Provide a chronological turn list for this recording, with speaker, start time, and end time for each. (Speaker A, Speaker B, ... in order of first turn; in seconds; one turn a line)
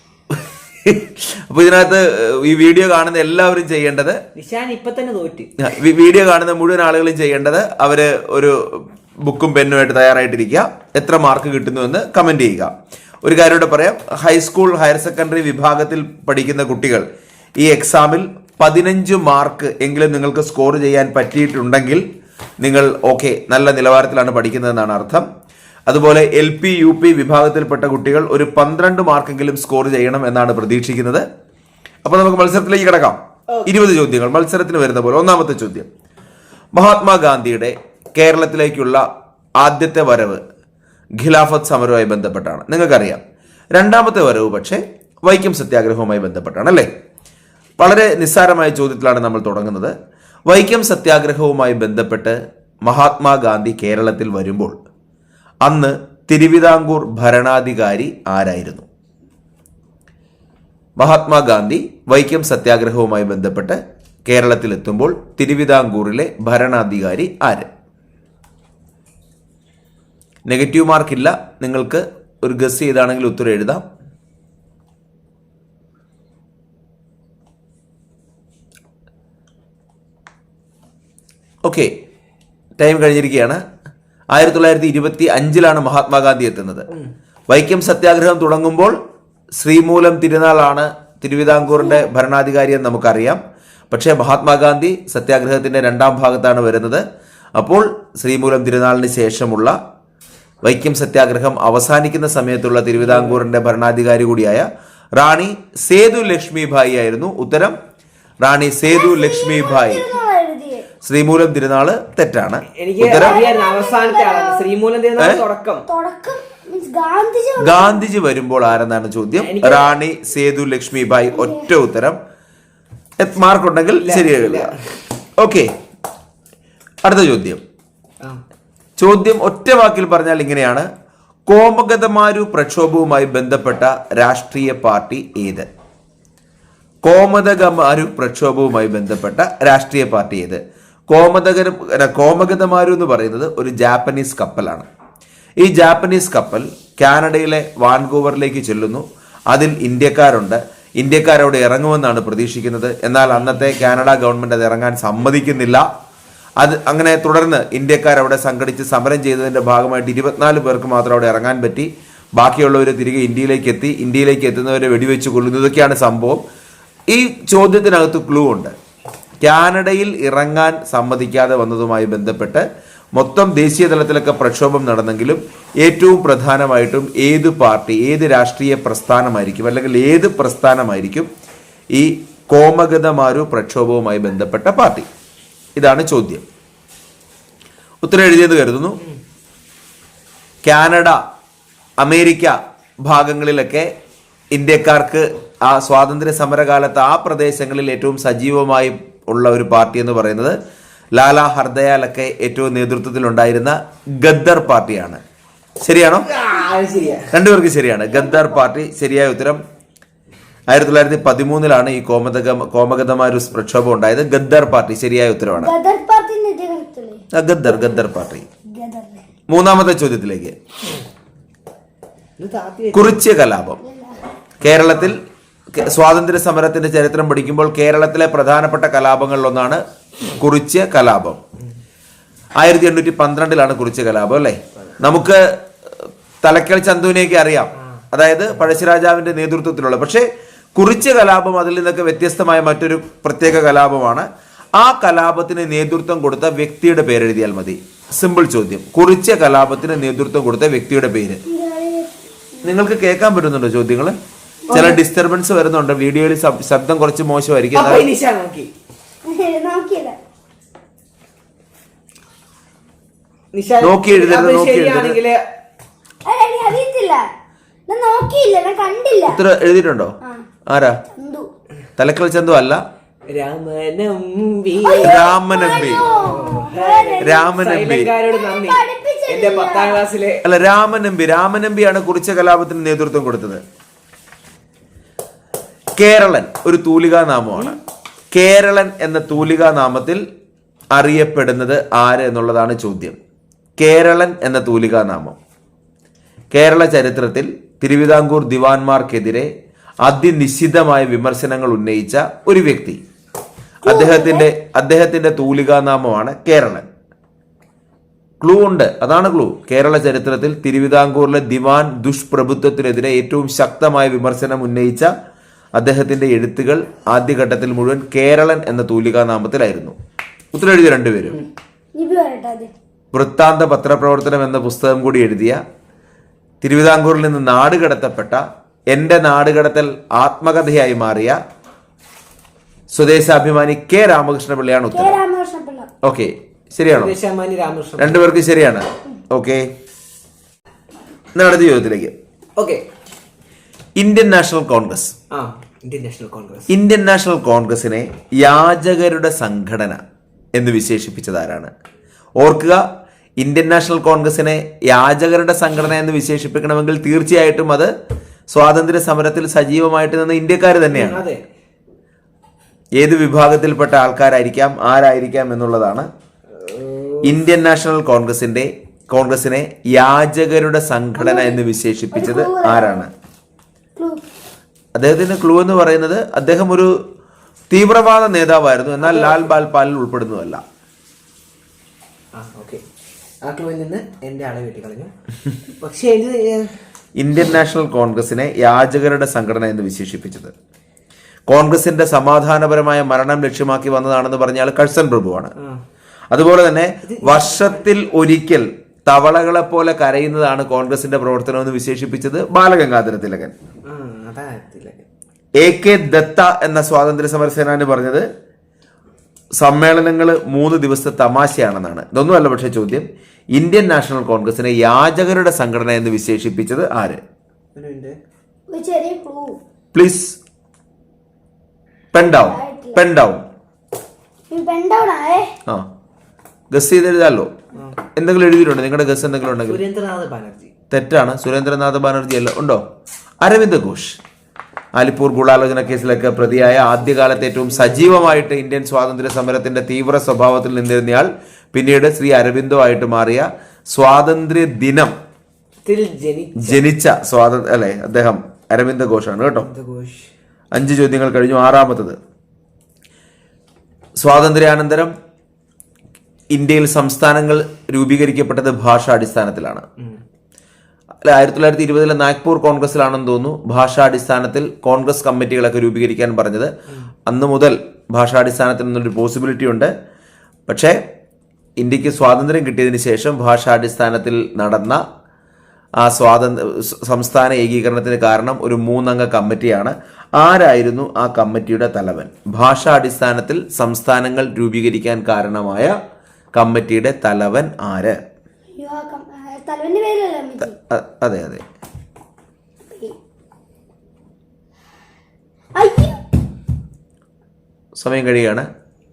Speaker A: 0.3-4.2
Speaker B: 4.3-5.5
Speaker A: 5.6-17.1
Speaker A: 17.6-22.1
Speaker A: 22.6-25.3
Speaker A: 25.9-31.2
Speaker A: 32.0-35.9
Speaker A: 36.7-39.0
Speaker A: 39.6-40.4
Speaker A: 41.2-43.2
Speaker A: 43.7-46.9
Speaker A: 47.8-49.9
Speaker A: 50.5-54.8
Speaker A: 55.6-58.9
Speaker A: 61.0-67.7
Speaker A: 70.5-73.8
Speaker A: 81.6-81.9
Speaker A: 82.8-83.6
Speaker A: 84.3-86.9
Speaker A: 87.5-89.0
Speaker A: 89.6-97.0
Speaker A: 97.6-99.8
Speaker A: 100.6-107.8
Speaker B: 103.0-103.4
Speaker A: 108.4-110.0
Speaker C: 108.9-110.9
Speaker A: 111.0-113.4
Speaker B: 112.8-115.9
Speaker C: 113.2-114.7
Speaker C: 115.9-118.0
Speaker A: 117.6-122.2
Speaker B: 119.4-120.0
Speaker C: 121.4-121.7
Speaker A: 123.2-124.7
Speaker B: 124.0-124.8
Speaker A: 125.4-125.7
Speaker A: 127.0-127.6
Speaker A: 129.0-130.9
Speaker A: 131.5-135.7
Speaker A: 137.0-144.9
Speaker A: 145.6-155.9
Speaker B: 153.3-153.8
Speaker A: 156.6-166.4
Speaker A: 167.1-168.7
Speaker A: 169.4-181.3
Speaker A: 181.9-185.1
Speaker A: 185.8-186.4
Speaker A: 188.0-189.0
Speaker A: 190.6-191.2
Speaker A: 192.0-193.9
Speaker A: 194.5-200.6
Speaker A: 201.2-205.2
Speaker A: 205.8-206.3
Speaker B: 206.2-207.3
Speaker A: 207.3-209.6
Speaker C: 208.1-208.6
Speaker A: 210.7-215.7
Speaker C: 215.5-217.2
Speaker A: 217.3-218.5
Speaker C: 218.7-219.3
Speaker A: 219.5-220.6
Speaker B: 222.4-223.2
Speaker A: 222.9-223.8
Speaker C: 223.8-224.2
Speaker A: 224.6-225.2
Speaker B: 224.6-225.1
Speaker A: 225.7-229.8
Speaker A: 230.3-231.4
Speaker A: 232.6-251.4
Speaker B: 237.8-238.0
Speaker C: 251.4-252.8
Speaker A: 252.6-254.2
Speaker C: 254.7-254.9
Speaker A: 254.7-258.1
Speaker B: 257.7-258.7
Speaker C: 259.2-260.2
Speaker B: 263.5-265.4
Speaker A: 263.8-265.2
Speaker C: 266.3-267.2
Speaker C: 267.9-269.4
Speaker A: 269.3-270.1
Speaker A: 270.7-271.0
Speaker C: 271.1-271.5
Speaker A: 272.0-272.8
Speaker B: 273.3-280.4
Speaker C: 274.8-280.0
Speaker A: 275.0-276.1
Speaker A: 277.2-278.1
Speaker A: 280.4-283.6
Speaker A: 286.0-287.8
Speaker A: 288.3-290.2
Speaker A: 290.9-293.2
Speaker A: 293.8-295.4
Speaker A: 296.5-299.5
Speaker A: 300.0-303.0
Speaker A: 303.8-306.9
Speaker C: 303.9-304.5
Speaker A: 308.4-315.1
Speaker A: 315.8-319.9
Speaker A: 320.5-321.4
Speaker C: 321.9-322.7
Speaker A: 323.1-325.6
Speaker A: 326.6-331.4
Speaker A: 332.9-335.2
Speaker C: 334.9-335.9
Speaker A: 336.0-337.1
Speaker B: 336.9-338.2
Speaker A: 338.0-339.7
Speaker A: 341.4-342.1
Speaker B: 342.6-342.8
Speaker A: 344.0-345.1
Speaker B: 345.3-346.7
Speaker A: 346.7-350.0
Speaker A: 350.5-351.7
Speaker A: 352.4-352.9
Speaker A: 353.4-357.9
Speaker A: 358.5-361.2
Speaker B: 360.9-361.4
Speaker A: 363.0-366.1
Speaker B: 366.6-367.4
Speaker A: 367.2-373.1
Speaker C: 371.2-371.6
Speaker C: 372.1-373.1
Speaker C: 374.0-374.3
Speaker A: 375.0-376.9
Speaker A: 377.7-380.6
Speaker B: 379.0-379.5
Speaker B: 382.4-382.8
Speaker B: 383.4-385.1
Speaker B: 385.8-386.8
Speaker A: 387.2-390.5
Speaker A: 391.5-395.5
Speaker A: 396.3-403.5
Speaker B: 397.0-398.1
Speaker B: 403.9-405.0
Speaker A: 405.6-408.3
Speaker A: 409.6-417.2
Speaker B: 417.8-418.2
Speaker C: 418.7-419.6
Speaker A: 419.9-420.4
Speaker A: 422.1-423.4
Speaker C: 422.2-423.1
Speaker C: 424.5-425.6
Speaker A: 426.7-427.5
Speaker A: 428.1-429.8
Speaker B: 429.7-430.7
Speaker A: 430.9-432.8
Speaker A: 433.4-434.2
Speaker A: 434.9-445.1
Speaker B: 435.9-438.5
Speaker B: 445.9-446.8
Speaker A: 446.6-449.7
Speaker B: 449.6-450.3
Speaker A: 450.7-452.2
Speaker A: 454.2-455.1
Speaker A: 456.5-459.9
Speaker A: 461.2-466.7
Speaker A: 467.3-469.9
Speaker A: 470.7-471.0
Speaker A: 471.8-475.0
Speaker A: 476.0-486.0
Speaker A: 486.6-488.2
Speaker C: 488.8-490.8
Speaker A: 490.6-491.6
Speaker C: 492.9-493.2
Speaker C: 495.8-496.2
Speaker A: 498.0-498.7